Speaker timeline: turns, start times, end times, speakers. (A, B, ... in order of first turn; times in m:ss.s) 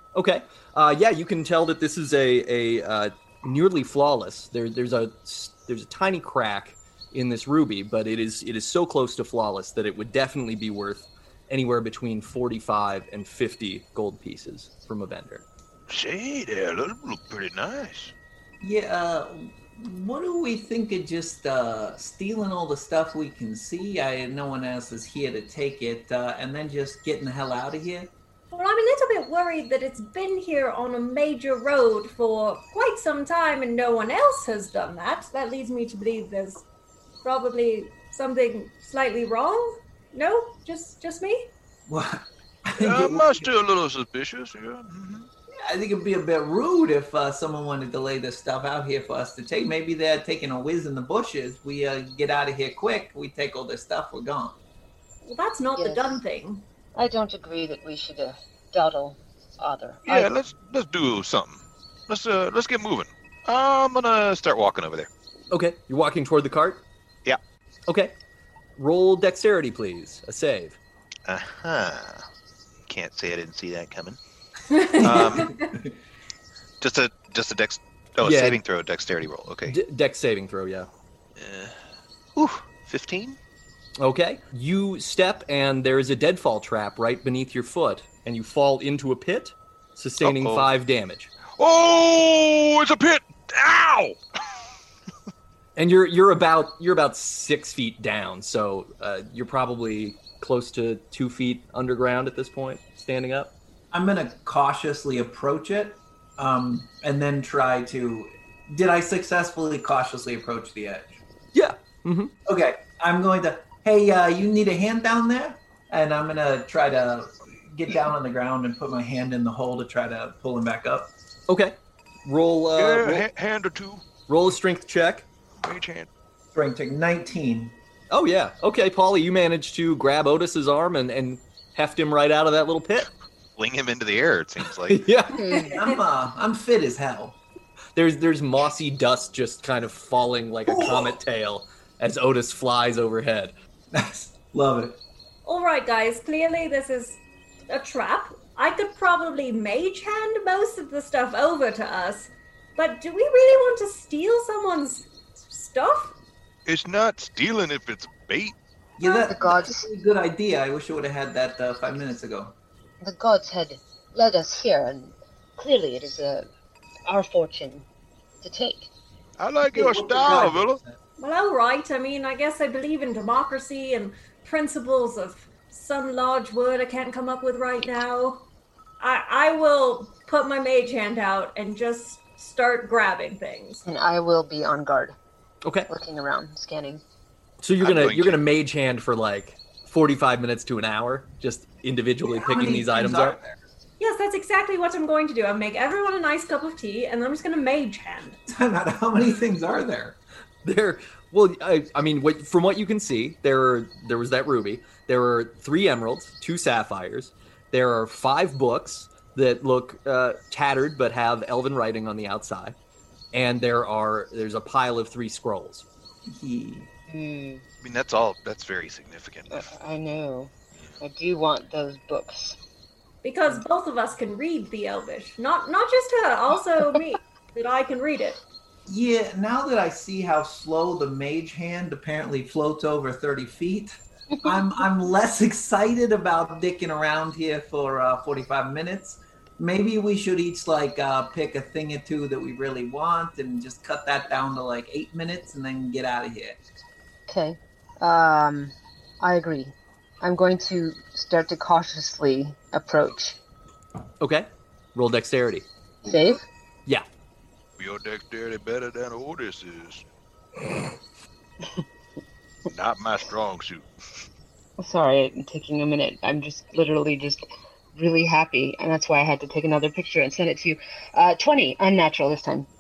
0:00.1-0:15.4 A
0:15.9-0:18.1 B
0:18.6-0:28.1 C
0:28.5-0:36.6 D
0:37.2-0:41.5 D
0:41.9-0:43.5 C
0:42.8-0:45.3 B
0:45.6-0:54.6 C
0:55.2-0:56.6 D
0:55.8-0:56.2 E
0:57.0-1:00.3 E
1:00.1-1:04.3 B
1:04.1-1:05.1 F
1:05.5-1:06.8 A
1:07.9-1:08.1 A
1:08.8-1:10.8 A
1:11.3-1:12.2 F
1:12.9-1:14.2 F
1:14.7-1:15.7 D
1:15.0-1:15.5 F
1:15.0-1:15.9 C
1:16.8-1:19.8 F
1:18.2-1:18.6 A
1:19.7-1:20.9 A
1:21.4-1:21.7 F
1:22.4-1:23.4 F
1:24.0-1:31.3 A
1:31.5-1:34.2 B
1:35.8-1:43.5 A
1:43.9-1:51.2 C
1:51.5-1:52.3 A
1:52.5-2:01.1 C
2:01.5-2:03.3 A
2:02.8-2:04.0 B
2:04.3-2:05.3 A
2:05.6-2:06.1 B
2:06.5-2:07.8 C
2:08.1-2:13.1 A
2:13.6-2:15.0 F
2:14.9-2:15.4 A
2:15.3-2:15.8 E
2:15.5-2:16.0 D
2:15.6-2:17.4 C
2:18.0-2:23.5 A
2:20.7-2:21.2 C
2:23.9-2:25.0 C
2:25.4-2:36.2 D
2:36.7-2:38.6 B
2:39.0-2:42.6 C
2:39.0-2:39.9 E
2:43.0-2:46.5 E
2:47.1-2:47.9 E
2:48.4-2:48.9 E
2:49.4-2:50.8 B
2:49.7-2:51.0 C
2:51.2-2:58.4 D
2:59.0-3:03.8 D
3:03.8-3:05.2 E
3:05.6-3:05.9 A
3:05.9-3:07.0 E
3:07.6-3:13.4 A
3:07.8-3:08.4 F
3:12.3-3:13.6 C
3:14.0-3:18.4 D
3:18.5-3:20.2 C
3:20.6-3:32.8 A
3:33.3-3:35.8 A
3:36.3-3:36.9 C
3:37.1-3:37.6 E
3:37.8-3:39.6 F
3:39.5-3:42.6 E
3:43.2-3:48.4 D
3:48.9-4:06.6 C
4:07.3-4:13.4 E
4:14.2-4:15.7 A
4:16.0-4:16.4 E
4:17.8-4:20.0 B
4:22.7-4:23.9 B
4:24.8-4:27.4 E
4:28.0-4:32.7 E